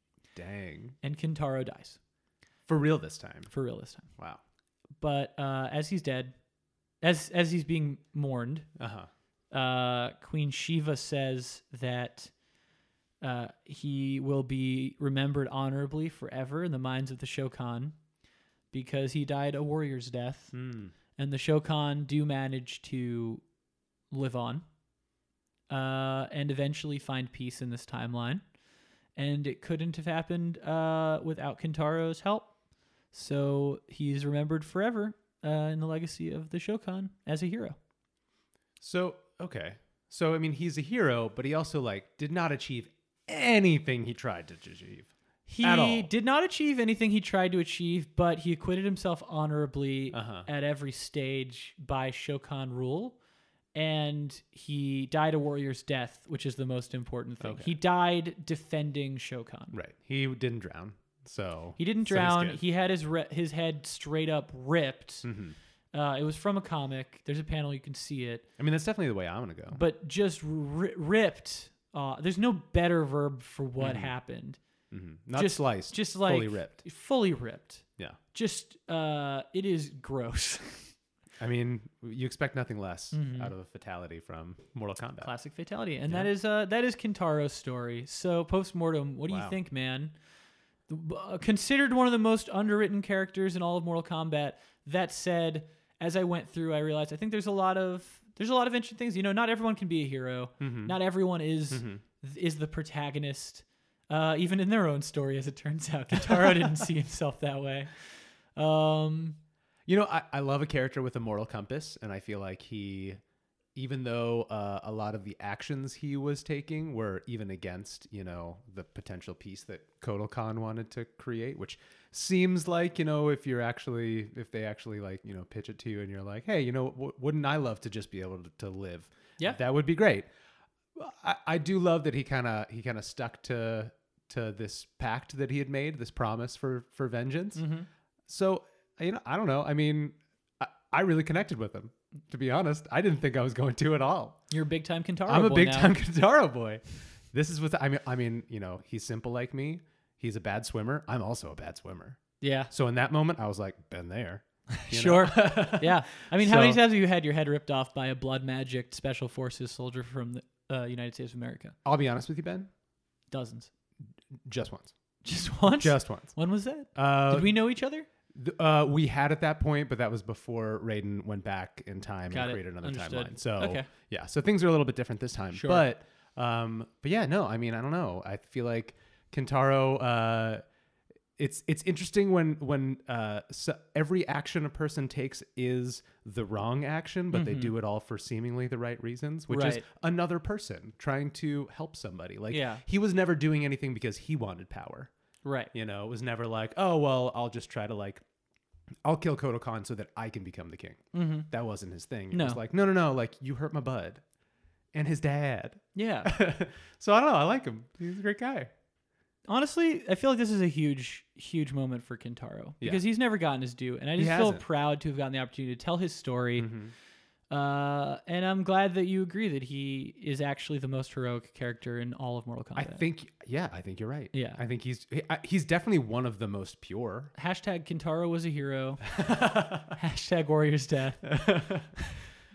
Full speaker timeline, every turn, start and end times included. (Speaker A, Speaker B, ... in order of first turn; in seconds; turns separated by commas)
Speaker A: 0.3-1.0, Speaker B: 1.0-2.0, Speaker A: 2.7-3.5, Speaker B: 3.5-4.1, Speaker B: 5.0-6.3, Speaker B: 7.0-8.7, Speaker A: 8.8-9.1, Speaker B: 9.5-12.3, Speaker B: 13.2-17.9, Speaker B: 18.7-20.5, Speaker A: 20.5-20.9, Speaker B: 21.2-23.4, Speaker B: 24.1-24.6, Speaker B: 25.7-28.4, Speaker B: 29.2-32.5, Speaker B: 33.1-37.8, Speaker A: 38.8-46.1, Speaker B: 45.5-53.2, Speaker A: 50.1-50.5, Speaker B: 53.8-59.8, Speaker A: 57.4-57.7, Speaker A: 59.7-62.6, Speaker B: 61.8-65.3, Speaker A: 65.2-65.5, Speaker B: 65.9-68.5, Speaker A: 68.6-69.8, Speaker B: 69.7-74.6, Speaker A: 73.8-74.1, Speaker A: 74.9-76.8, Speaker B: 75.4-80.9, Speaker A: 81.4-85.3, Speaker B: 83.1-83.5, Speaker B: 85.2-90.1, Speaker A: 89.3-89.6, Speaker B: 90.9-107.9, Speaker A: 100.6-101.0, Speaker A: 101.7-102.0, Speaker A: 106.3-106.7, Speaker B: 108.5-109.4, Speaker A: 109.9-113.2, Speaker A: 113.8-130.3, Speaker A: 130.9-137.7, Speaker B: 137.6-137.9, Speaker A: 138.3-144.4, Speaker B: 144.5-145.9, Speaker A: 145.3-152.2, Speaker B: 152.4-152.7, Speaker A: 152.7-156.8, Speaker B: 154.8-161.8, Speaker A: 161.8-162.7, Speaker B: 163.3-163.7, Speaker A: 164.4-164.9, Speaker B: 165.2-168.1, Speaker A: 165.7-166.3, Speaker A: 166.9-167.6, Speaker A: 168.3-180.6, Speaker B: 172.3-173.9, Speaker B: 175.5-175.8, Speaker A: 181.4-195.1, Speaker B: 187.3-187.7, Speaker B: 189.5-189.8, Speaker B: 192.5-192.8, Speaker B: 195.4-195.7, Speaker A: 195.7-198.2, Speaker A: 199.1-204.2, Speaker B: 201.1-201.5, Speaker B: 202.3-202.6, Speaker A: 204.9-208.7, Speaker B: 205.9-206.3, Speaker B: 209.5-216.7, Speaker A: 214.2-214.6, Speaker A: 216.6-216.9, Speaker B: 217.5-223.0, Speaker A: 222.8-227.3, Speaker B: 224.3-224.6, Speaker B: 227.3-229.1, Speaker A: 229.1-230.0, Speaker B: 229.9-231.4, Speaker A: 231.3-231.9